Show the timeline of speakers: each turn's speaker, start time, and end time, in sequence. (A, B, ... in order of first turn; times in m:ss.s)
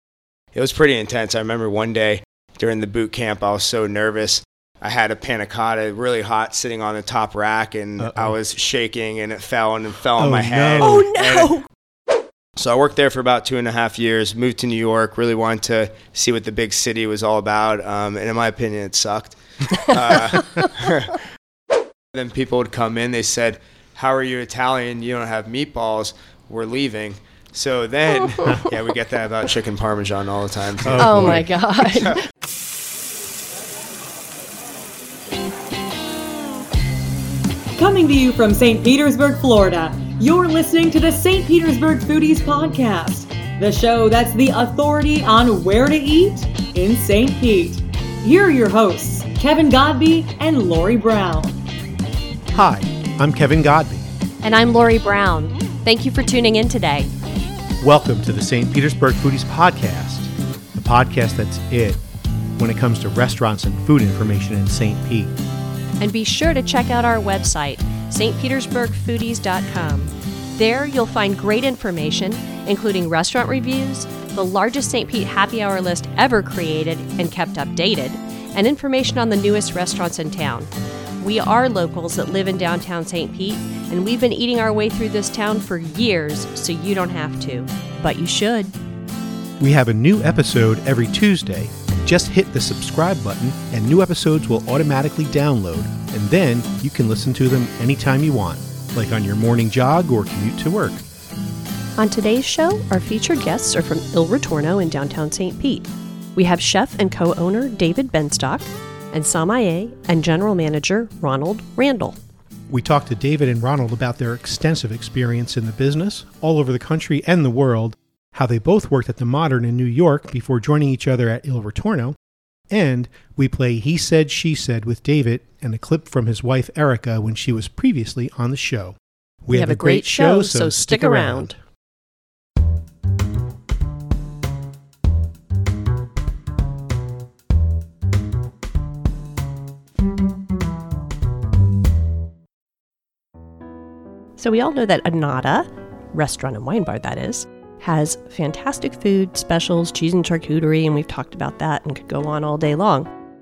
0:00.6-0:11.5 A
0:08.0-0:08.4 B
0:10.2-0:11.4 B
0:10.8-0:11.6 C
0:12.6-0:21.2 A
0:22.1-0:32.2 A
0:30.8-0:31.5 B
0:31.0-0:32.2 C
0:37.7-0:51.6 D
0:52.5-0:54.1 B
0:54.4-0:57.1 C
0:57.8-1:02.0 B
1:02.6-1:05.3 B
1:06.0-1:28.8 C
1:29.6-1:41.0 B
1:42.0-1:52.2 C
1:52.7-2:02.2 B
2:02.7-2:11.5 B
2:09.5-2:11.6 C
2:24.4-2:33.1 C